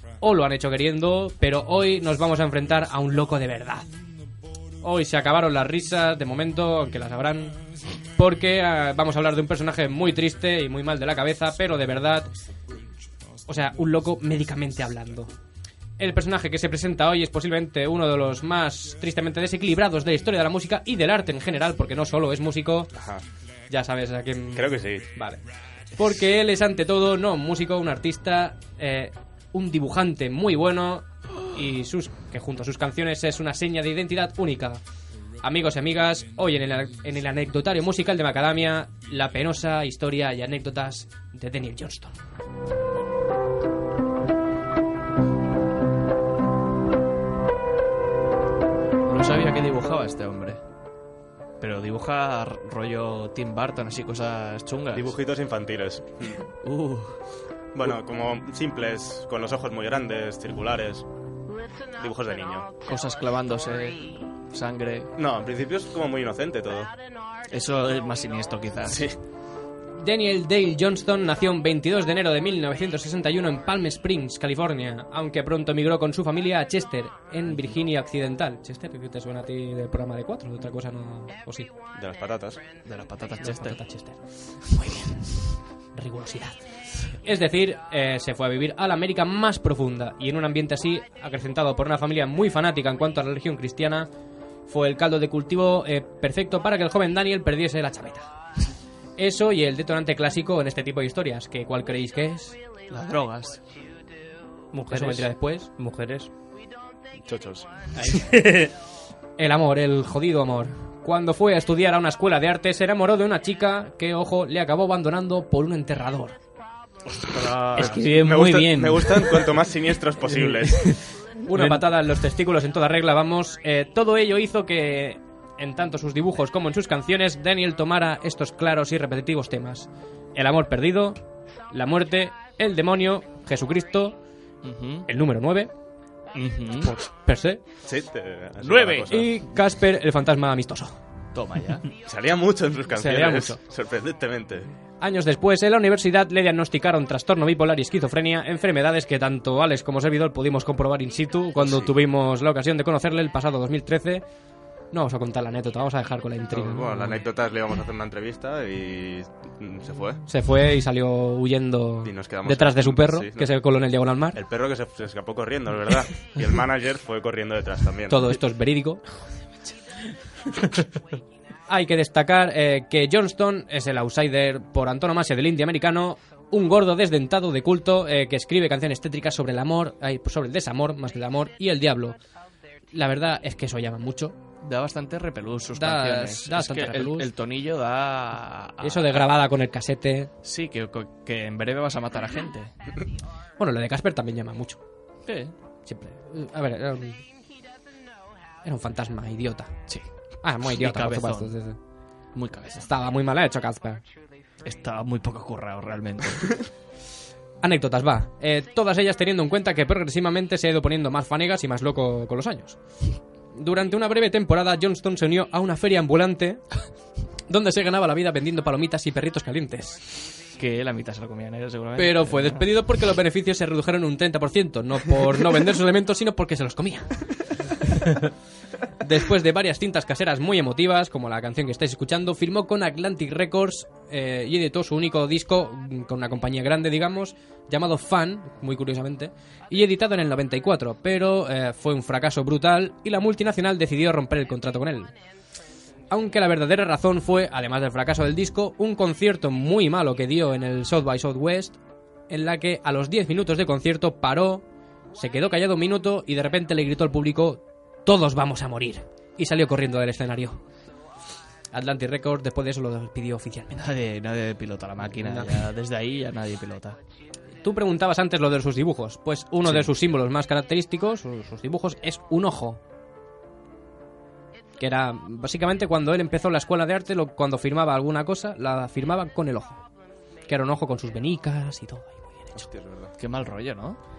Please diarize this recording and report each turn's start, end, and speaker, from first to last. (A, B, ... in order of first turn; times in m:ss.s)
0:00.2-0:03.9 A
0:04.8-0:07.6 A
0:08.1-0:12.3 A
0:13.4-0:15.3 A
0:16.0-0:22.9 A
0:22.9-0:23.2 B
0:23.7-0:25.4 A
0:24.5-0:25.1 B
0:26.0-0:34.8 A
0:35.4-0:42.1 A
0:49.0-0:50.6 C
0:51.6-0:55.1 C
0:54.9-0:56.4 B
0:56.6-0:57.2 C
0:57.7-1:01.0 B
1:02.0-1:02.7 B
1:02.8-1:05.1 C
1:05.2-1:06.9 B
1:07.5-1:09.0 C
1:08.8-1:09.2 B
1:10.0-1:21.7 A
1:17.5-1:17.7 C
1:21.9-1:22.6 B
1:22.8-1:23.8 C
1:23.4-1:34.1 A
1:24.7-1:25.1 C
1:34.7-1:38.3 A
1:39.2-1:42.6 A
1:42.9-1:43.6 C
1:44.7-1:46.3 D
1:44.9-1:45.7 A
1:47.2-1:47.7 B
1:47.9-1:48.7 D
1:49.4-1:56.4 A
1:57.1-2:00.9 B
1:57.8-1:59.4 D
2:00.7-2:01.0 D
2:01.4-2:11.2 A
2:01.5-2:01.8 D
2:11.7-2:14.2 A
2:14.6-2:15.1 C
2:15.1-2:15.7 A
2:16.3-2:17.0 C
2:16.8-2:17.6 A
2:17.8-2:19.3 B
2:18.6-2:19.1 C
2:19.1-2:21.0 A
2:21.3-2:21.9 C
2:22.0-2:24.7 B
2:23.0-2:23.6 A
2:25.0-2:34.2 A
2:31.6-2:31.9 B
2:34.9-2:37.2 A
2:36.5-2:40.2 B
2:40.3-2:44.4 A
2:42.0-2:43.5 B
2:44.3-2:48.3 B
2:48.1-2:49.0 A
2:51.7-3:02.2 A
3:02.9-3:04.4 A
3:04.6-3:09.3 C
3:05.7-3:07.3 A
3:08.8-3:10.3 A
3:10.4-3:12.7 C
3:13.6-3:14.8 A
3:15.2-3:15.5 C
3:15.8-3:17.2 A
3:18.6-3:19.8 A
3:20.4-3:21.8 A
3:20.6-3:21.5 C
3:22.3-3:22.8 C
3:22.7-3:24.0 A
3:24.6-3:26.6 C
3:27.6-3:36.8 A
3:37.5-3:40.2 A
3:40.6-3:42.6 C
3:42.0-3:48.2 A
3:49.0-4:05.1 A
4:06.1-4:20.6 A
4:21.7-4:23.9 A
4:23.8-4:27.0 C
4:25.2-4:25.7 A
4:27.6-4:32.8 A
4:34.8-4:39.8 A
4:40.5-4:42.6 A
4:42.5-4:43.1 B
4:43.2-4:44.0 C